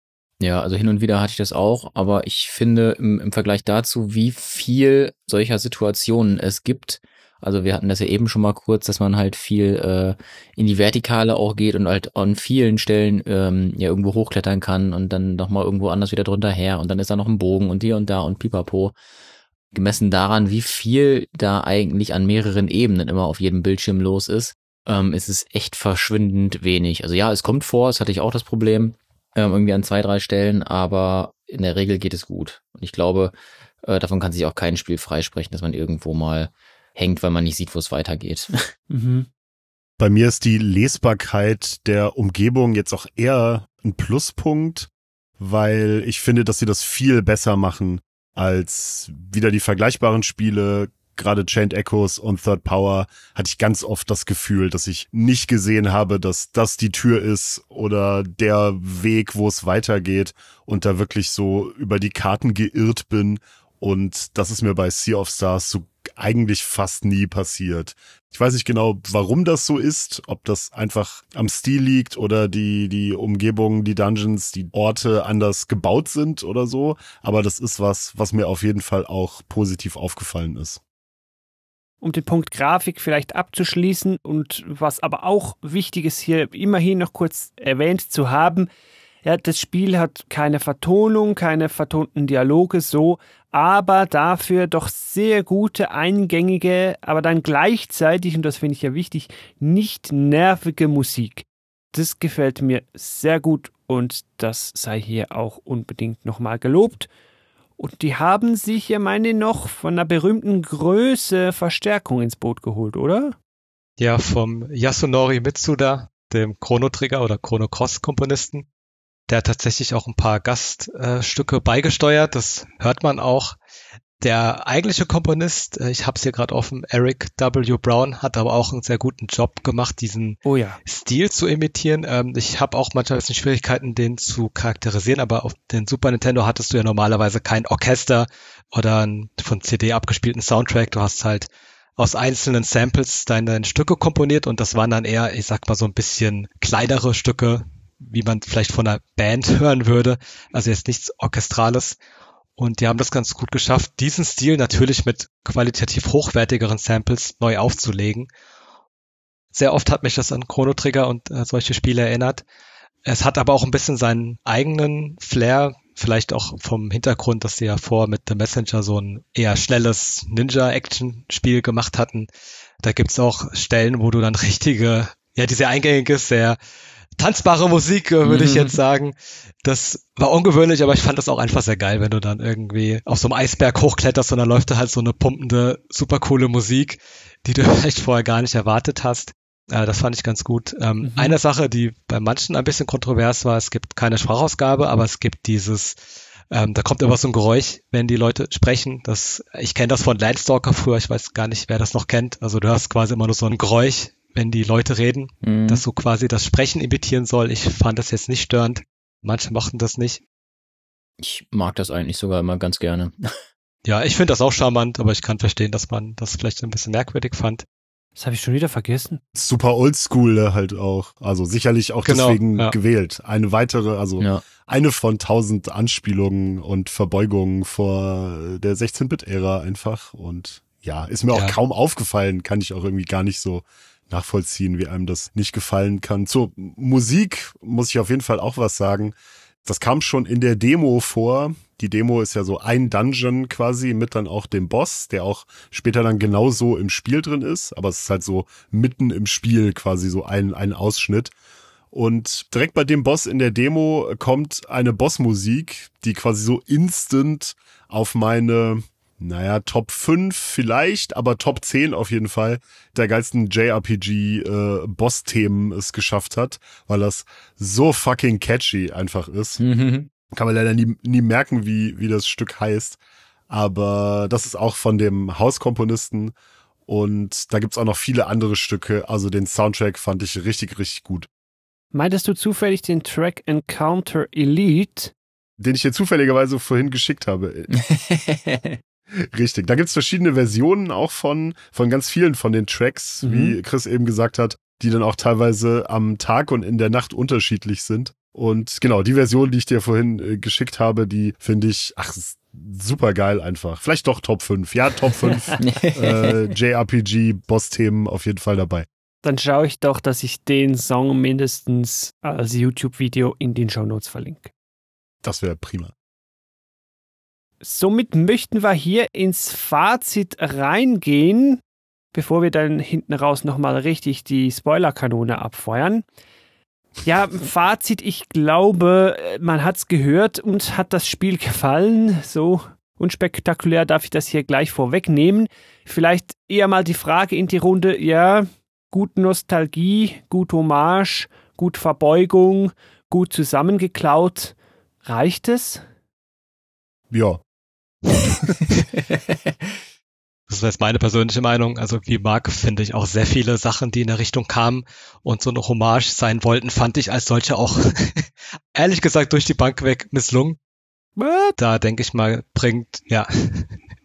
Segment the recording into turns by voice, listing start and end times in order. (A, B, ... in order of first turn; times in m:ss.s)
0:00.4-0:19.0 A
0:19.7-0:38.5 A
0:38.9-0:39.3 B
0:40.0-1:20.8 C
1:22.0-1:28.7 B
1:29.2-1:47.1 B
1:47.8-1:53.4 B
1:54.0-1:58.7 D
1:59.3-2:03.6 D
2:04.2-2:32.0 D
2:10.4-2:10.8 B
2:32.6-2:38.3 D
2:39.5-2:42.4 D
2:43.0-2:52.3 D
2:52.8-2:56.6 D
2:57.2-3:16.0 D
2:58.2-2:58.8 A
3:11.0-3:11.4 B
3:16.5-3:30.2 D
3:25.4-3:25.8 A
3:31.2-3:33.1 A
3:33.8-3:37.6 D
3:38.2-3:39.2 B
3:39.4-4:11.3 C
3:42.0-3:42.8 D
3:44.2-3:44.4 A
4:11.9-4:29.6 C
4:29.6-4:30.1 A
4:30.3-4:33.0 C
4:33.5-4:36.4 C
4:36.9-4:41.3 C
4:41.9-4:45.1 B
4:45.6-4:47.7 C
4:47.7-4:48.8 A
4:49.3-5:08.9 C
4:53.2-4:53.6 B
5:05.6-5:06.4 A
5:09.2-5:14.5 B
5:15.2-5:15.9 C
5:17.6-5:21.6 B
5:22.1-5:26.1 B
5:27.0-5:45.8 B
5:47.1-5:47.4 C
5:49.1-5:49.4 A
5:50.5-6:00.6 D
6:01.2-6:01.6 B
6:01.6-6:03.7 D